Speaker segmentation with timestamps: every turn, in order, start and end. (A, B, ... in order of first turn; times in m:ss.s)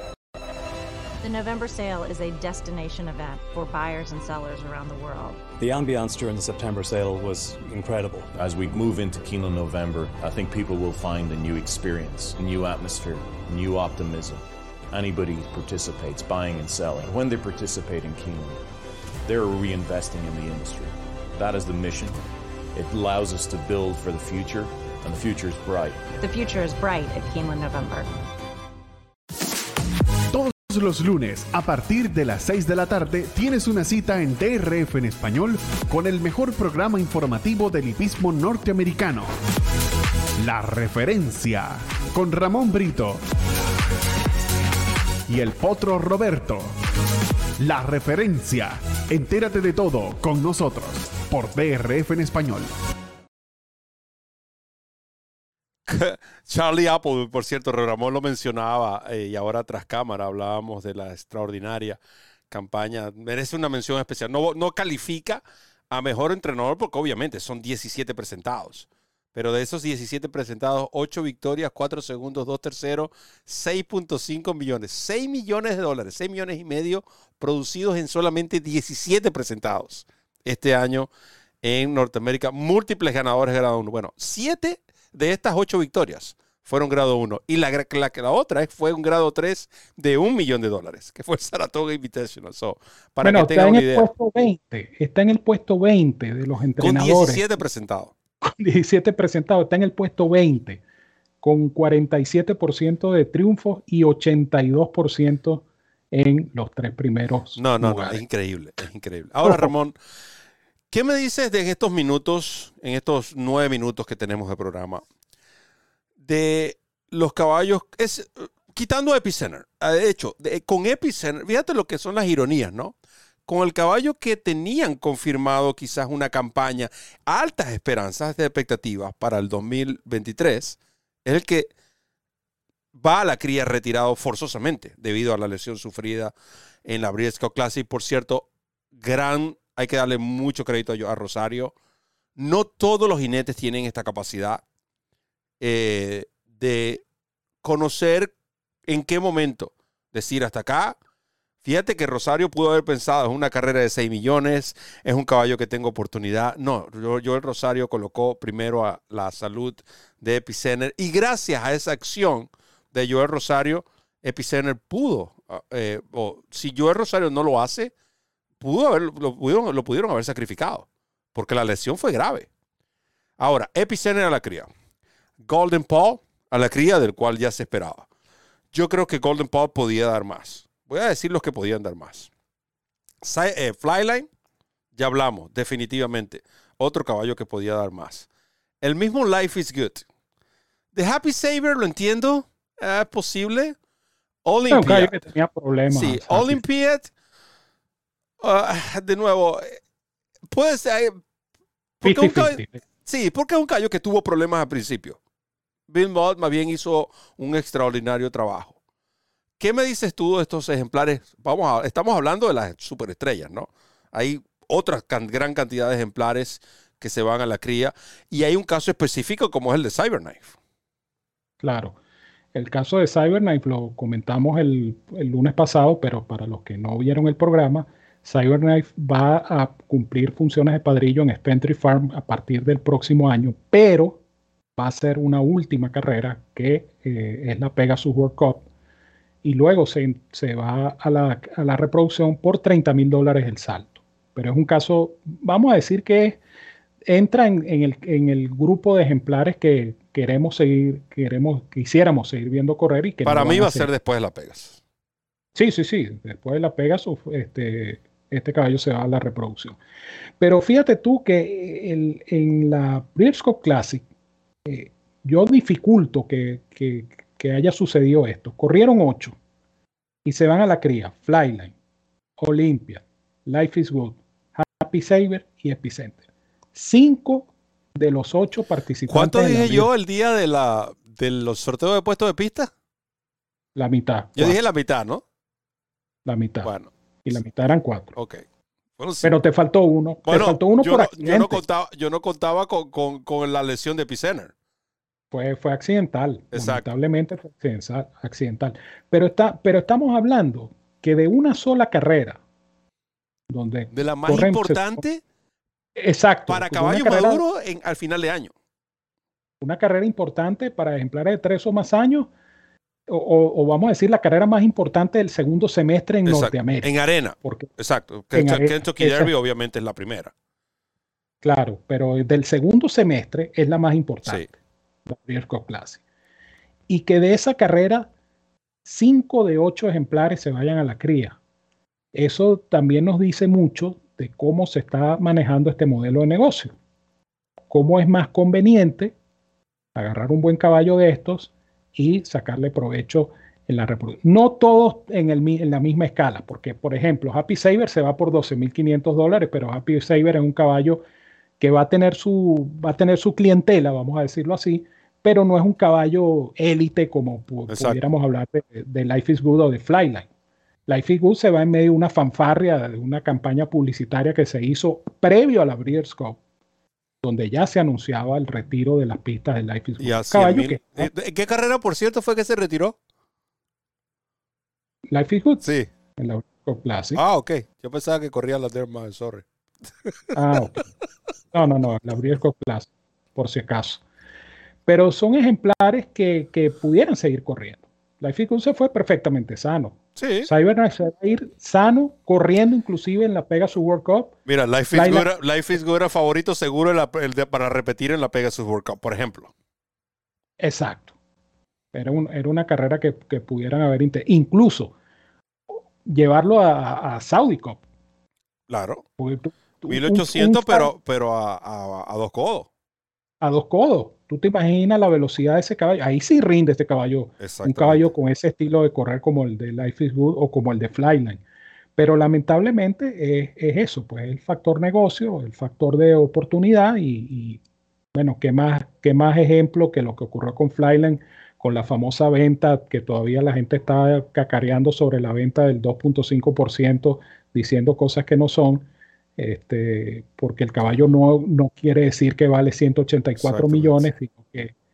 0:01.2-0:05.4 A
0:05.6-0:08.3 B
0:08.4-0:18.6 C
0:19.2-0:22.2 C
0:22.7-0:26.0 C
0:26.2-0:28.1 A
0:30.3-0:39.3 D
0:40.4-0:43.2 D
0:45.3-0:46.7 D
0:47.6-0:52.7 D
0:55.8-1:21.1 E
1:21.6-1:34.1 E
1:33.2-1:37.5 F
1:36.8-1:38.1 E
1:38.6-1:40.8 F
1:41.4-1:48.2 F
1:47.5-1:50.0 E
1:49.4-1:49.7 F
1:50.9-1:55.0 E
1:56.2-2:02.9 E
2:03.5-2:11.7 E
2:12.9-2:16.3 E
2:16.8-2:21.7 E
2:22.4-2:24.6 E
2:25.6-2:27.0 E
2:27.6-2:28.3 E
2:28.9-2:31.0 E
2:31.6-2:47.9 E
2:48.6-2:52.5 E
2:53.4-2:54.7 E
2:55.4-2:58.1 E
2:58.7-3:02.3 E
3:03.2-3:04.3 E
3:05.0-3:08.3 E
3:08.8-3:10.0 E
3:10.9-3:13.8 E
3:14.4-3:15.1 E
3:14.7-3:16.6 F
3:15.9-3:17.1 E
3:18.4-3:19.8 E
3:20.5-3:21.2 E
3:22.0-3:25.2 E
3:22.0-3:22.8 F
3:25.9-3:28.8 E
3:29.6-3:40.6 E
3:41.6-3:42.0 F
3:42.5-3:54.2 F
3:54.8-3:58.6 F
3:59.4-4:06.4 F
4:07.0-4:13.9 F
4:13.2-4:14.8 E
4:15.5-4:19.8 F
4:20.4-4:24.0 F
4:24.6-4:29.4 F
4:30.2-4:31.7 F
4:32.4-4:36.2 F
4:36.7-4:39.9 F
4:39.1-4:42.7 E
4:43.8-4:44.6 F
4:44.4-4:45.2 E
4:46.2-4:46.7 F
4:46.6-4:46.9 E
4:47.2-4:48.1 F
4:48.1-4:48.4 E
4:49.0-4:49.4 E
4:49.2-4:51.6 F
4:50.2-4:54.5 E
4:55.3-5:02.4 F
4:56.5-4:56.8 E
5:03.5-5:05.0 F
5:03.9-5:05.2 E
5:06.0-5:07.4 F
5:06.5-5:08.5 E
5:09.6-5:12.3 F
5:13.1-5:16.9 F
5:16.2-5:20.3 E
5:17.4-5:17.7 F
5:18.3-5:19.3 F
5:21.4-5:24.5 F
5:25.1-5:26.0 F
5:26.9-5:28.1 F
5:28.8-5:31.4 F
5:32.1-5:36.7 F
5:37.7-5:39.1 F
5:39.9-5:51.0 F
5:51.6-6:00.3 F
5:57.7-5:58.0 E
6:00.9-6:06.4 F
6:07.2-6:11.1 F
6:10.0-6:13.0 E
6:15.1-6:15.6 F
6:15.6-6:15.9 E
6:16.2-6:17.2 F
6:17.2-6:19.4 E
6:20.3-6:20.8 F
6:21.5-6:24.0 F
6:24.9-6:34.3 F
6:30.2-6:30.5 E
6:34.4-6:39.5 E
6:34.9-6:35.2 F
6:40.6-6:41.1 F
6:41.9-6:44.9 F
6:45.7-6:47.8 F
6:48.7-6:49.0 E
6:49.2-6:50.9 F
6:49.9-6:52.7 E
6:53.4-7:01.4 F
6:57.4-6:58.1 E
7:02.0-7:07.6 F
7:08.1-7:24.7 F
7:23.4-7:24.1 E